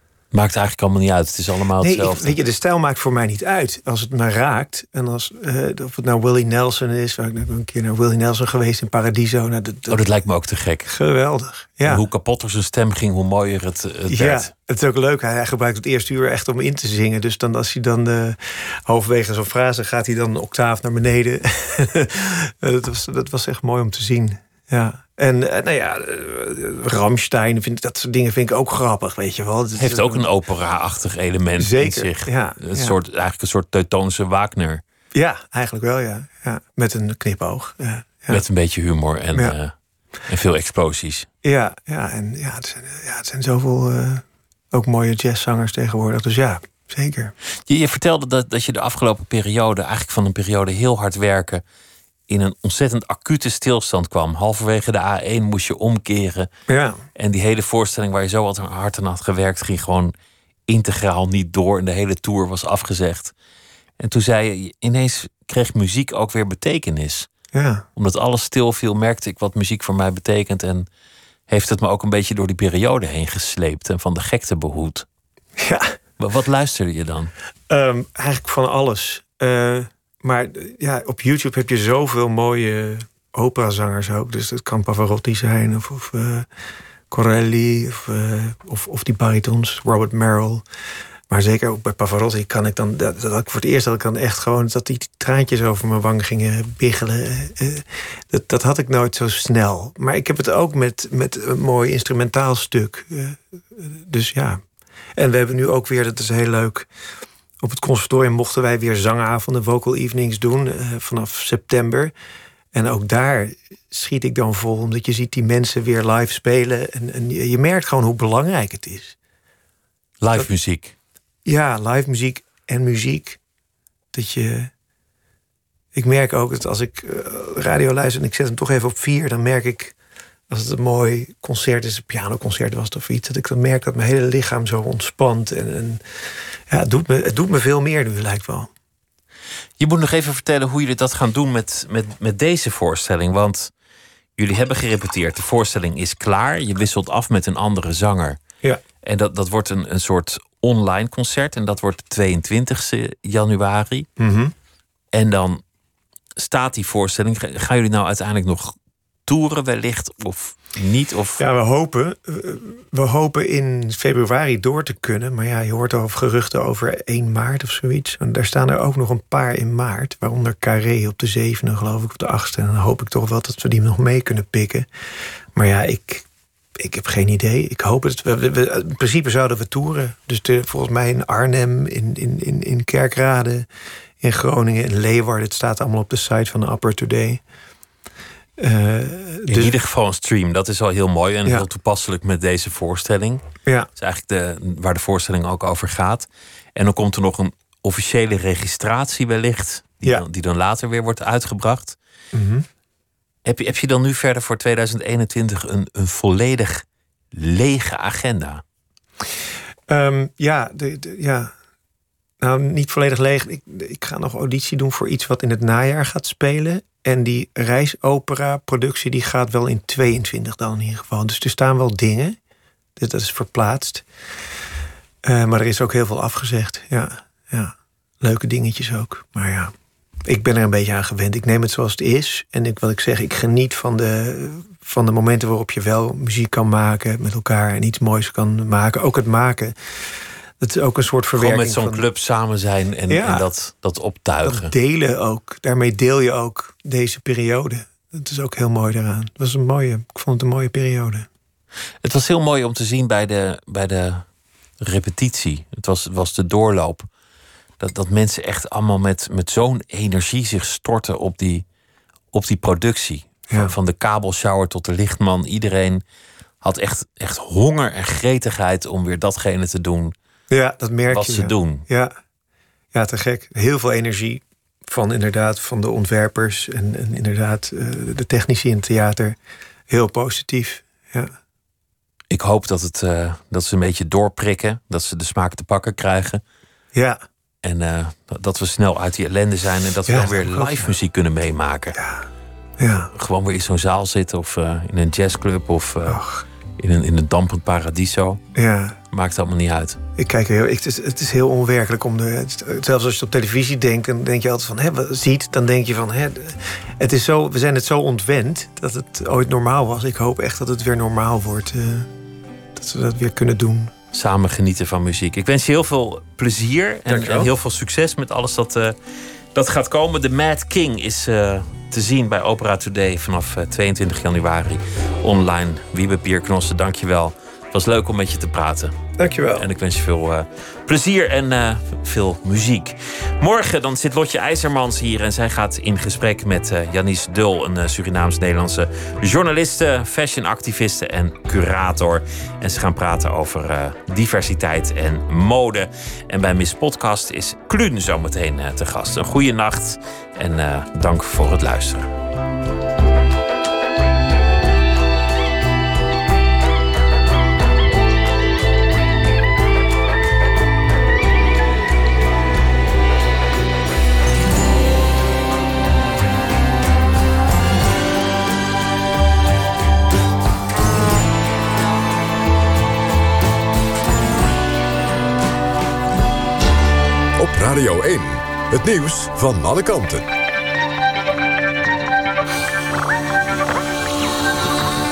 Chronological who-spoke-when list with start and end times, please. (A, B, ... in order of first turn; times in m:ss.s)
0:00.3-0:02.3 A
0:01.8-0:10.0 B
0:09.9-0:10.9 A
0:10.9-0:12.0 B
0:11.8-0:14.5 A
0:14.1-0:30.3 B
0:29.8-0:34.8 A
0:31.6-0:33.0 B
0:35.1-0:38.4 B
0:38.3-0:39.7 A
0:40.3-0:41.3 A
0:41.4-0:47.3 B
0:47.7-0:51.6 A
0:52.3-0:56.5 A
0:56.7-0:57.0 B
0:57.2-1:00.1 A
1:00.7-1:03.3 A
1:04.0-1:07.3 A
1:07.5-1:07.8 B
1:08.0-1:10.9 A
1:11.5-1:15.0 A
1:15.6-1:16.0 B
1:16.2-1:17.3 A
1:17.7-1:26.5 B
1:27.1-1:30.6 B
1:31.3-1:44.6 B
1:45.2-1:46.9 B
1:47.6-1:52.1 B
1:52.7-1:59.2 B
2:00.2-2:01.0 A
2:01.4-2:03.4 B
2:04.1-2:04.7 B
2:05.9-2:10.0 B
2:10.5-2:16.0 B
2:16.7-2:18.7 B
2:19.8-2:23.7 A
2:24.4-2:28.4 A
2:29.0-2:34.1 A
2:34.2-2:34.5 B
2:35.1-2:35.6 A
2:36.4-2:38.7 A
2:39.3-2:41.4 A
2:41.4-2:54.9 B
2:55.5-3:03.7 B
3:04.2-3:07.4 B
3:08.6-3:09.7 B
3:09.5-3:13.4 A
3:14.0-3:22.0 A
3:22.3-3:22.7 B
3:23.4-3:28.6 A
3:29.9-3:31.5 B
3:32.4-3:42.4 B
3:43.0-3:44.0 B
3:45.2-3:49.7 B
3:50.2-3:59.8 B
4:00.6-4:02.0 B
4:01.4-4:04.7 A
4:03.1-4:03.4 B
4:04.4-4:11.3 B
4:12.0-4:14.2 A
4:14.8-4:17.1 A
4:17.8-4:21.6 A
4:22.3-4:26.0 A
4:26.6-4:30.1 A
4:30.5-4:32.1 B
4:31.1-4:31.8 A
4:32.9-4:39.4 B
4:39.9-4:41.3 B
4:42.3-4:46.4 A
4:46.9-4:47.2 B
4:47.6-4:52.0 A
4:50.0-4:50.9 B
4:51.9-4:52.3 B
4:52.8-4:53.1 B
4:53.1-4:56.2 A
4:56.0-4:56.4 B
4:56.8-4:58.4 A
4:58.6-4:59.0 B
4:59.1-5:00.0 A
5:00.2-5:12.1 B
5:12.7-5:13.9 B
5:14.1-5:19.0 A
5:17.1-5:17.5 B
5:19.6-5:28.9 A
5:29.2-5:29.7 B
5:29.6-5:52.1 A
6:17.4-6:20.3 C